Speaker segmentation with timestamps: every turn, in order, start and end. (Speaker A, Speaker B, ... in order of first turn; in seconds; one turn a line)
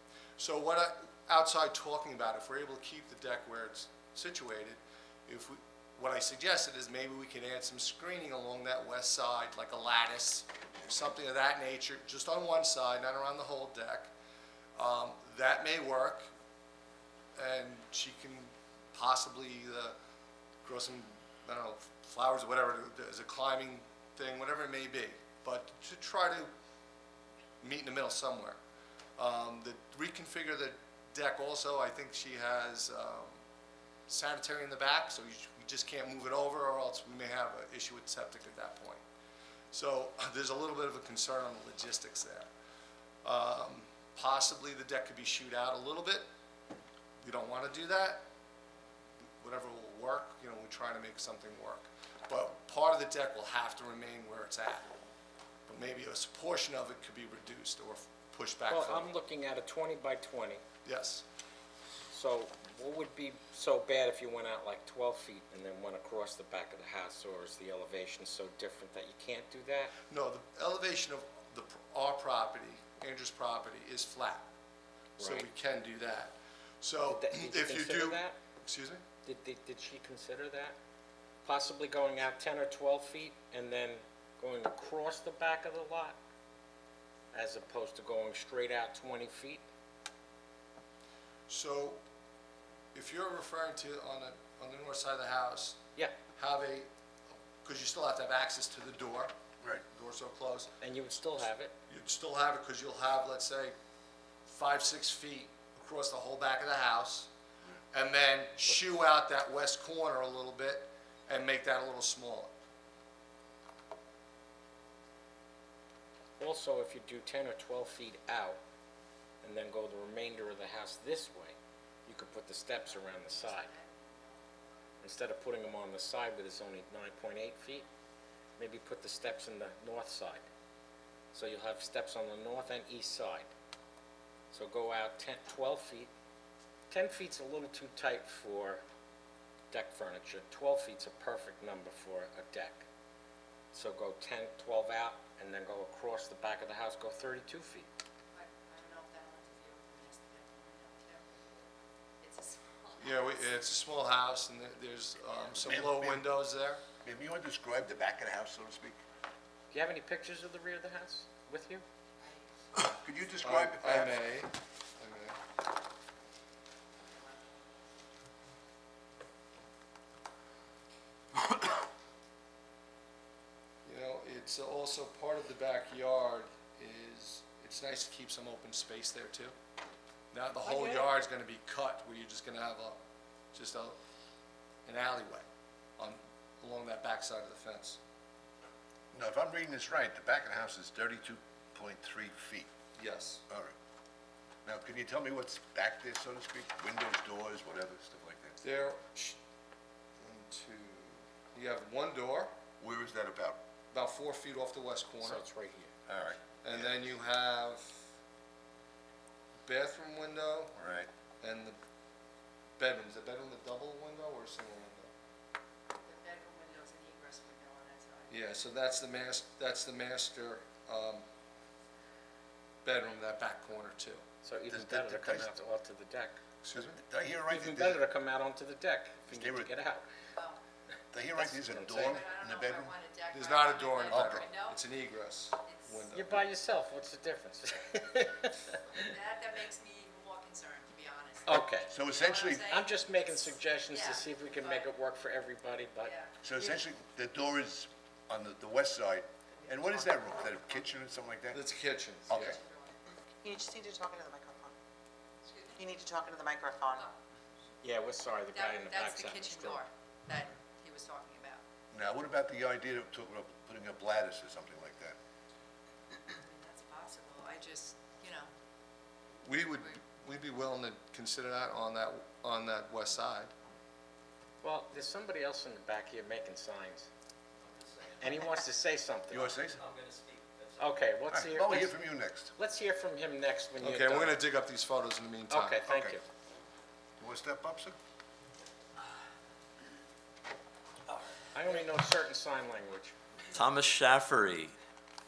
Speaker A: 0.4-14.1
Speaker A: 14.8-16.2
Speaker A: 17.4-19.9
Speaker A: 20.6-26.5
Speaker A: 27.6-28.6
Speaker A: 29.2-33.4
Speaker A: 34.1-39.0
Speaker A: 39.7-42.5
Speaker A: 43.2-46.2
Speaker A: 47.2-48.2
Speaker A: 49.4-54.9
Speaker A: 55.7-59.1
Speaker B: 58.7-60.6
Speaker A: 60.8-61.2
Speaker B: 62.1-69.9
Speaker A: 70.1-74.5
Speaker B: 75.2-75.5
Speaker A: 75.2-79.0
Speaker B: 77.1-78.3
Speaker B: 79.2-80.8
Speaker B: 81.4-86.2
Speaker B: 87.3-89.6
Speaker A: 91.5-92.0
Speaker A: 92.9-95.8
Speaker A: 96.3-96.9
Speaker A: 97.6-99.3
Speaker A: 99.9-100.7
Speaker B: 100.8-101.7
Speaker A: 101.9-103.7
Speaker A: 104.5-107.3
Speaker A: 107.9-112.5
Speaker B: 116.4-118.6
Speaker B: 119.4-121.5
Speaker B: 122.1-123.7
Speaker C: 122.8-124.4
Speaker B: 125.0-127.8
Speaker B: 128.6-130.4
Speaker B: 131.3-133.5
Speaker B: 134.5-136.1
Speaker B: 136.9-138.8
Speaker B: 139.7-142.8
Speaker B: 143.7-147.9
Speaker C: 148.3-153.8
Speaker A: 153.0-156.8
Speaker D: 155.6-156.3
Speaker D: 157.0-159.0
Speaker B: 159.7-161.8
Speaker C: 162.2-162.6
Speaker D: 162.7-164.2
Speaker A: 163.4-165.3
Speaker C: 167.1-167.7
Speaker A: 173.8-179.5
Speaker A: 180.3-183.0
Speaker B: 180.6-181.1
Speaker A: 183.5-184.0
Speaker A: 184.8-185.4
Speaker A: 186.0-188.0
Speaker D: 189.1-192.7
Speaker A: 193.0-193.4
Speaker D: 193.5-193.7
Speaker D: 194.6-198.6
Speaker A: 198.6-199.4
Speaker A: 200.2-202.5
Speaker D: 202.8-203.6
Speaker A: 203.9-205.4
Speaker B: 205.2-205.9
Speaker D: 206.1-207.0
Speaker A: 206.6-208.0
Speaker A: 209.7-210.8
Speaker D: 210.8-211.1
Speaker A: 211.4-211.8
Speaker A: 212.8-215.1
Speaker C: 215.9-218.4
Speaker A: 218.3-221.2
Speaker A: 222.8-224.2
Speaker B: 224.4-226.4
Speaker D: 224.7-225.5
Speaker A: 226.6-227.0
Speaker D: 226.7-228.0
Speaker B: 227.5-230.1
Speaker D: 229.3-229.7
Speaker D: 231.1-232.9
Speaker B: 231.4-232.2
Speaker C: 232.0-234.8
Speaker A: 233.3-236.4
Speaker D: 234.1-234.5
Speaker C: 235.6-236.1
Speaker B: 236.1-239.1
Speaker C: 239.0-244.9
Speaker B: 241.4-241.9
Speaker D: 241.9-242.7
Speaker B: 242.7-246.1
Speaker C: 246.0-246.3
Speaker D: 246.4-251.6
Speaker A: 251.5-252.6
Speaker D: 252.3-252.6
Speaker C: 252.4-253.0
Speaker E: 253.4-254.7
Speaker C: 255.4-255.9
Speaker E: 255.8-257.1
Speaker B: 257.8-259.8
Speaker C: 258.5-261.6
Speaker D: 261.9-265.2
Speaker C: 266.4-268.5
Speaker A: 269.4-273.5
Speaker B: 274.6-277.1
Speaker F: 277.6-278.4
Speaker B: 278.2-279.6
Speaker D: 279.3-279.8
Speaker F: 279.8-280.9
Speaker B: 280.8-282.0
Speaker D: 281.3-282.5
Speaker B: 282.5-284.4
Speaker A: 283.8-286.1
Speaker B: 285.5-286.2
Speaker D: 287.2-287.9
Speaker B: 291.5-293.1
Speaker F: 293.5-294.8